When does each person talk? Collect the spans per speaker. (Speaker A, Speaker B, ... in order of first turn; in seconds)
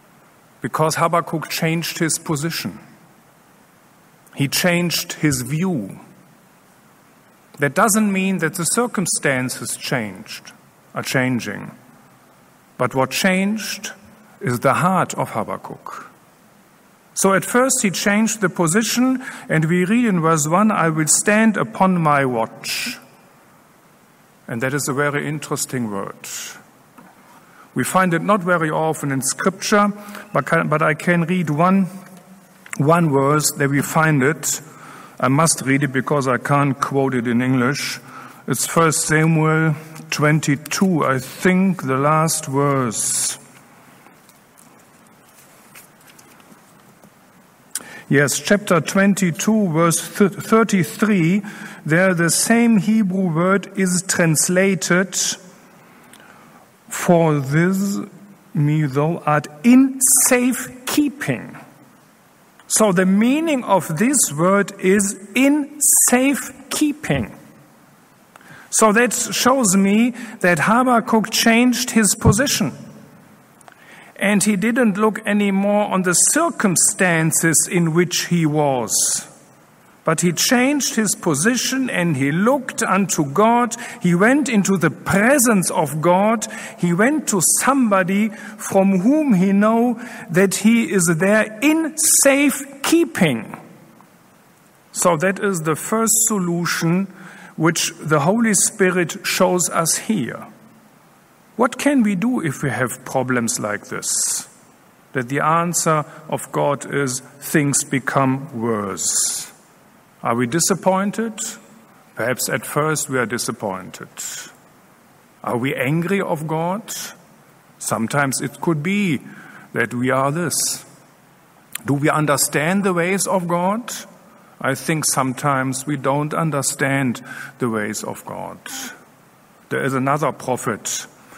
Speaker A: 0.6-2.8, 4.3-6.0, 7.6-11.7, 12.8-16.1, 17.1-23.0, 24.5-26.6, 27.7-31.9, 32.8-34.6, 35.2-43.4, 48.1-55.4, 56.9-61.6, 62.7-67.3, 68.7-72.8, 74.2-79.3, 80.0-93.6, 94.9-100.5, 101.6-104.5, 105.1-109.5, 110.2-111.6, 112.1-114.5, 115.4-117.2, 117.8-120.9, 121.8-124.1, 124.6-128.9, 129.7-131.1